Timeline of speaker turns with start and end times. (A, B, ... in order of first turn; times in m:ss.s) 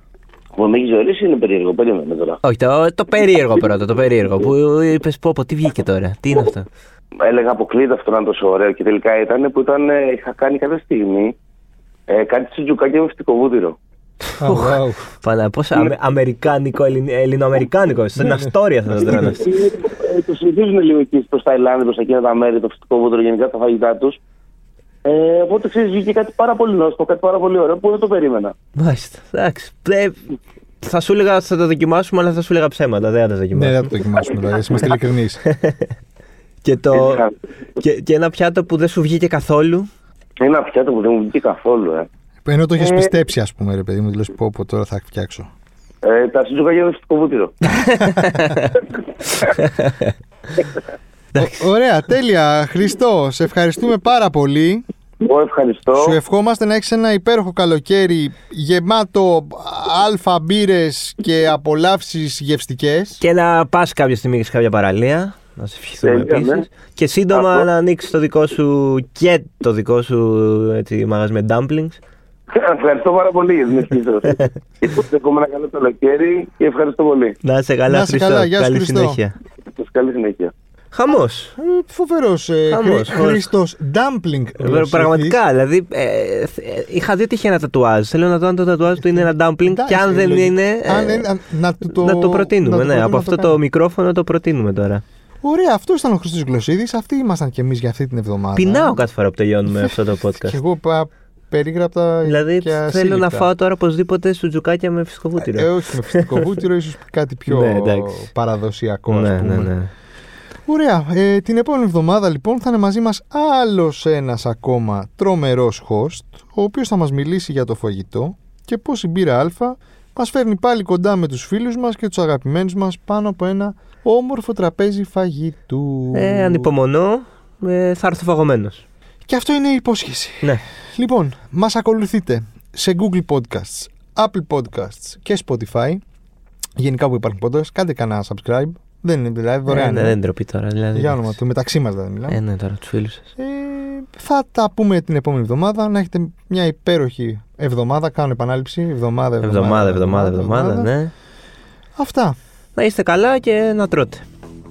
0:00.6-0:02.4 A
0:02.4-0:06.7 B
0:07.2-0:11.4 A
0:12.1-0:13.8 A
0:14.4-0:15.0 C
0:14.4-0:19.4 B
0:18.2-0:18.5 C
0:19.0-0:19.4 C
0:19.1-0:24.2 A
0:25.0-0:28.5 A
0:28.8-0:30.2 B
0:30.8-0:33.9 B
0:33.5-0:35.4 C
0:35.5-0:35.9 B
0:36.6-0:37.2 B
0:36.9-0:37.3 A
0:37.8-0:39.9 B
0:40.4-0:42.1 A
0:42.5-0:45.5 C
0:42.8-0:43.2 A
0:46.0-0:47.5 A
0:47.9-0:48.7 B
0:49.6-0:50.1 B
0:51.4-0:54.8 C
0:51.4-0:51.7 B
0:55.2-0:56.2 A
0:55.9-1:03.2 C
1:03.2-1:12.0 B
1:06.0-1:06.7 A
1:07.3-1:07.7 A
1:12.5-1:17.4 A
1:17.4-1:19.4 B
1:17.9-1:19.2 C
1:19.8-1:20.5 A
1:20.9-1:21.5 B
1:21.6-1:25.4 C
1:22.7-1:23.5 B
1:24.6-1:31.3 B
1:29.0-1:33.6 C
1:31.9-1:35.0 B
1:35.4-1:39.0 C
1:38.6-1:40.6 B
1:40.4-1:43.5 C
1:42.2-1:46.5 B
1:45.4-1:49.7 C
1:47.5-1:48.3 B
1:49.1-1:49.9 B
1:50.7-2:06.7 C
2:06.2-2:08.8 B
2:09.3-2:16.0 C
2:16.8-2:20.2 C
2:19.7-2:21.4 B
2:20.9-2:22.4 C
2:22.3-2:23.3 B
2:23.4-2:30.9 C
2:29.4-2:31.1 B
2:32.0-2:32.4 C
2:32.8-2:34.2 B